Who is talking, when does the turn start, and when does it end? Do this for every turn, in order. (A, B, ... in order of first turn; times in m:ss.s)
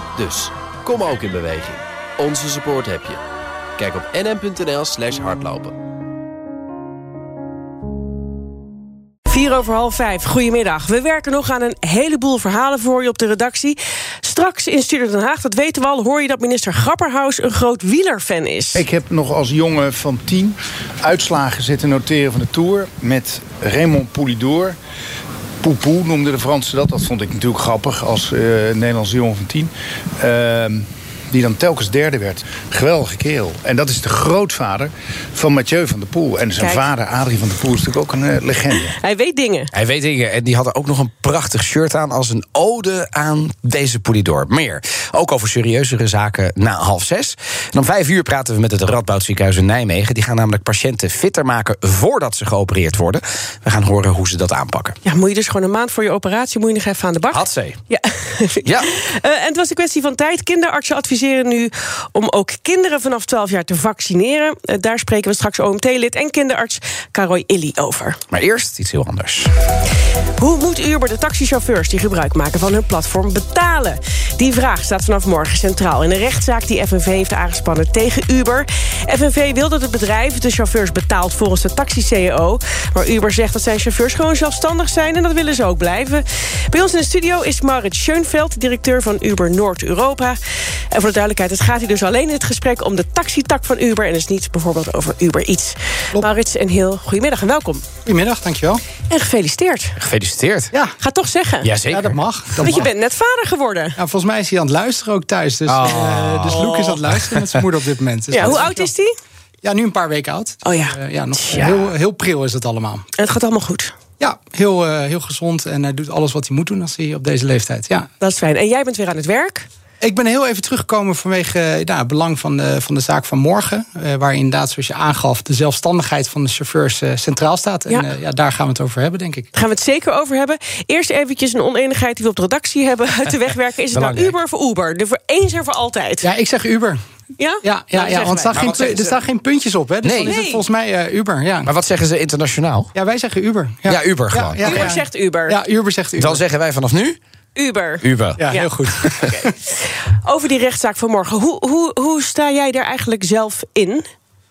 0:00.2-0:03.2 A
0:03.8-0:05.8 A
0:09.3-0:18.8 B
0:18.7-0:24.8 C
0:25.6-0:38.9 C
0:36.6-0:36.8 B
0:38.9-0:39.7 B
0:39.7-0:55.0 D
0:55.0-1:08.2 B
0:57.3-0:57.8 D
0:58.6-0:58.9 D
1:08.3-1:09.5 D
1:10.4-1:37.8 B
1:38.0-1:38.8 E
1:39.1-1:40.0 B
1:40.0-1:40.7 D
1:41.0-1:41.7 B
1:41.6-1:42.2 D
1:41.9-1:42.9 E
1:42.6-1:44.0 B
1:44.0-1:48.9 E
1:45.7-1:46.7 D
1:46.5-1:47.0 B
1:48.3-1:49.1 B
1:49.6-1:53.1 E
1:50.6-1:51.8 B
1:53.2-1:53.9 B
1:54.2-1:58.1 E
1:58.2-1:59.7 B
2:00.0-2:09.5 E
2:09.5-2:16.3 B
2:13.9-2:14.3 D
2:16.2-2:17.0 E
2:17.4-2:19.2 B
2:17.6-2:21.7 E
2:18.5-2:18.8 D
2:20.0-2:20.3 D
2:20.2-2:20.6 B
2:21.6-2:22.9 D
2:22.9-2:26.4 E
2:23.9-2:24.9 D
2:24.6-2:25.6 B
2:26.2-2:27.2 D
2:27.5-2:34.0 B
2:28.0-2:28.4 D
2:28.4-2:29.5 E